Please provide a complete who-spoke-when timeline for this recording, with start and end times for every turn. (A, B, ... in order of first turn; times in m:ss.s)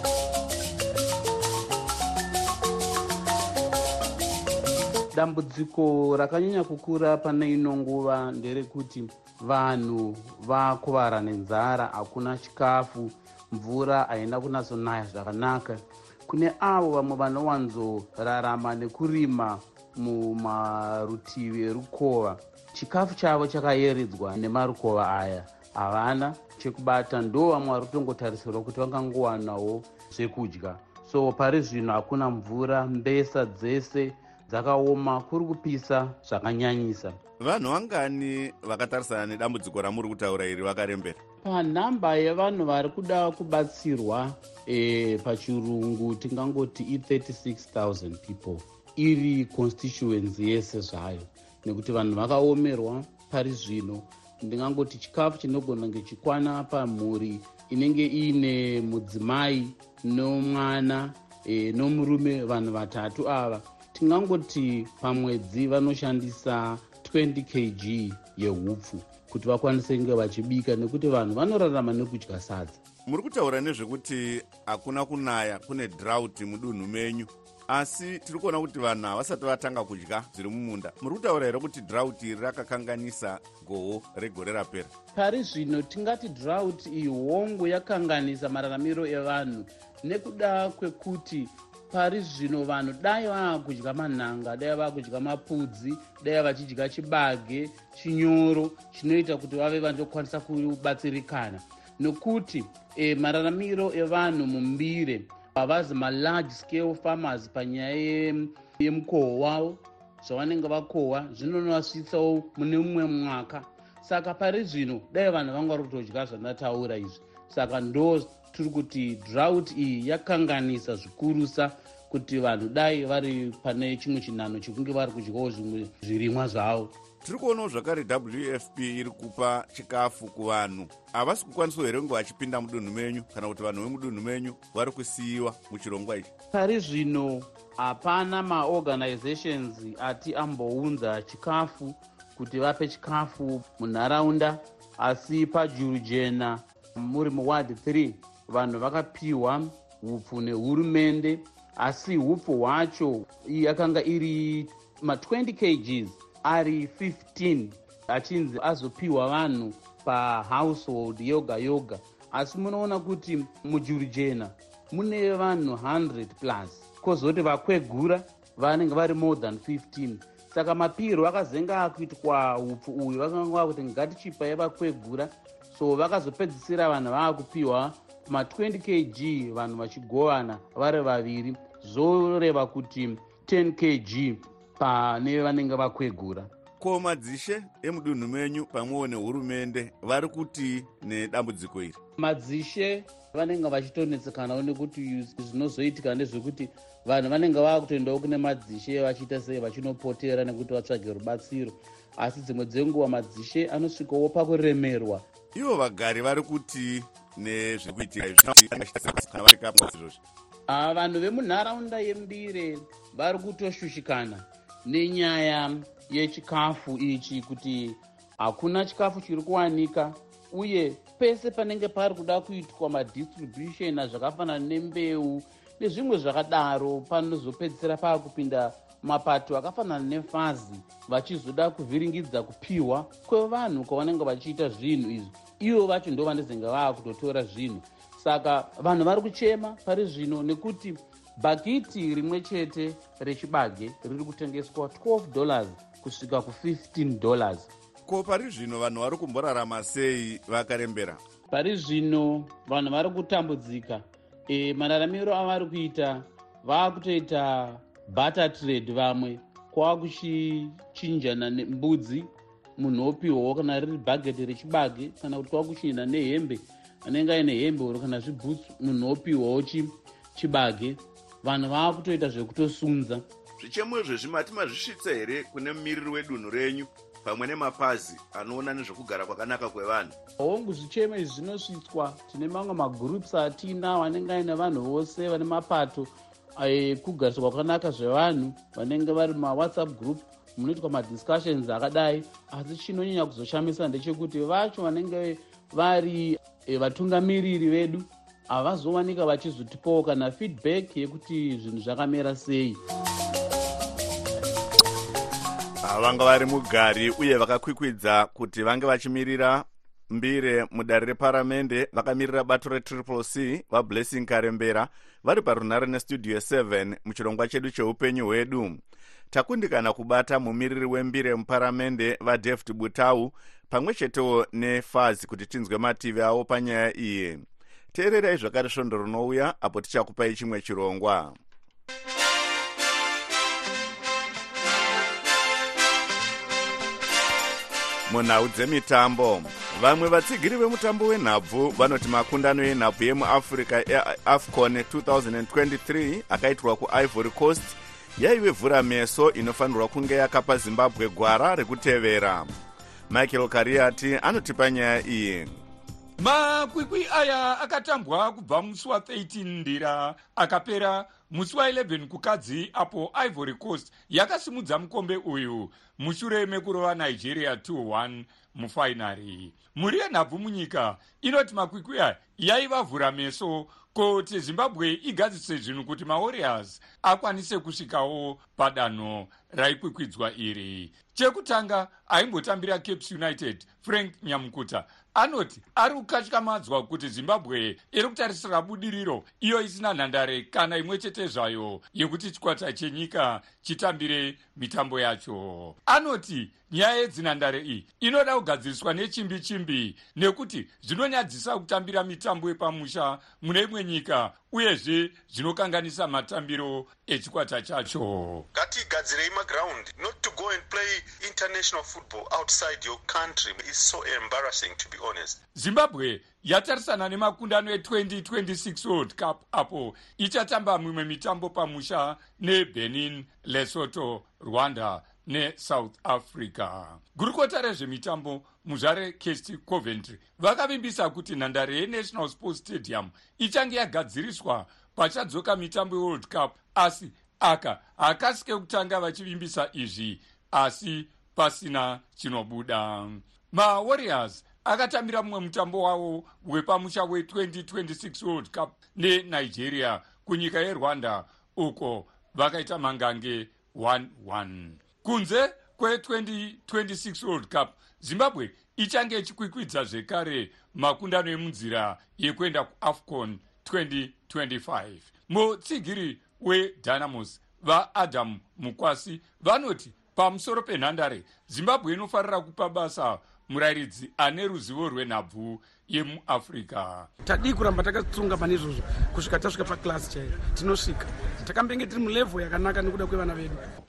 0:05.1-0:37.2 A
0:37.4-0:41.2 B
0:41.4-1:12.8 A
1:13.1-1:24.9 B
1:25.2-2:06.9 A
2:07.2-2:16.3 B
2:16.5-3:06.5 A
3:06.8-3:12.0 B
3:12.2-3:25.2 A
3:25.6-3:30.2 B
3:30.7-4:07.7 A
4:08.1-4:11.2 B
4:11.5-4:33.2 A
4:33.6-4:40.2 B
4:40.4-5:02.8 A
5:05.8-5:18.8 B
5:19.3-5:31.4 B
5:38.1-5:52.5 B
5:53.1-5:55.6 B
5:56.2-6:48.5 C
6:48.5-6:55.4 D
6:55.6-7:57.1 C
7:57.2-8:03.6 E